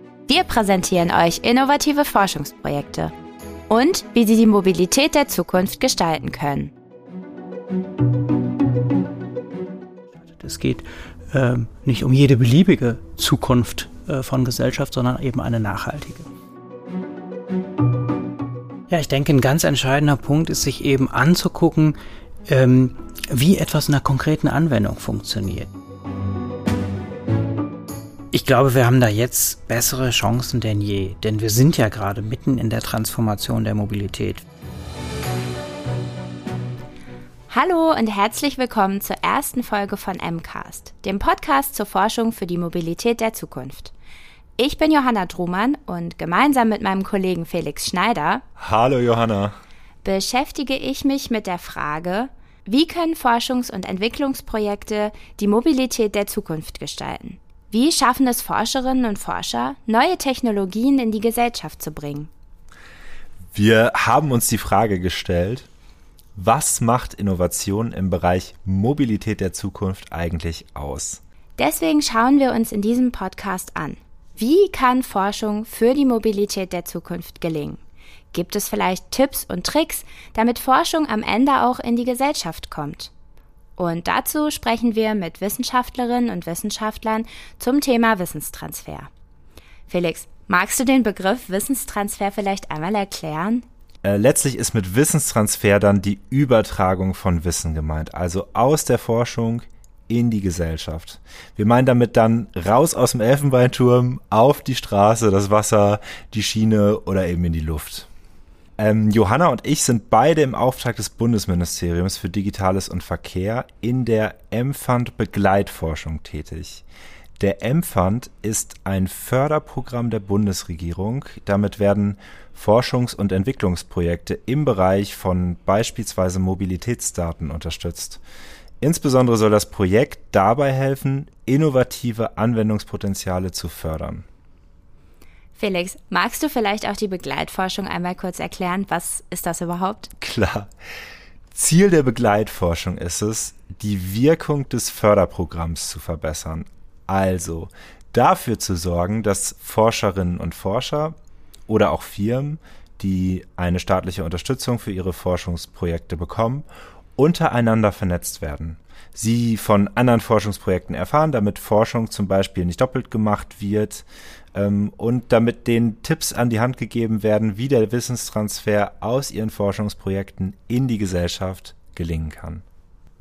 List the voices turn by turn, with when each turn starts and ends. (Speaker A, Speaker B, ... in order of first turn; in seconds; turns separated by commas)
Speaker A: 0.3-3.1, Speaker A: 3.7-6.7, Speaker B: 10.3-16.3, Speaker B: 18.9-22.0, Speaker B: 22.5-25.7, Speaker B: 28.3-34.4, Speaker A: 37.5-43.9, Speaker A: 44.6-48.4, Speaker C: 48.6-49.6, Speaker A: 50.0-62.3, Speaker C: 63.5-65.7, Speaker C: 66.4-71.2, Speaker A: 71.6-77.8, Speaker A: 78.3-83.1, Speaker A: 83.8-89.1, Speaker A: 89.9-93.7, Speaker C: 94.0-108.1, Speaker C: 108.8-116.8, Speaker C: 117.4-128.2, Speaker C: 128.8-134.3, Speaker A: 135.6-140.1, Speaker C: 140.2-140.7, Speaker C: 141.5-151.2, Speaker C: 151.7-156.7, Speaker C: 157.2-172.6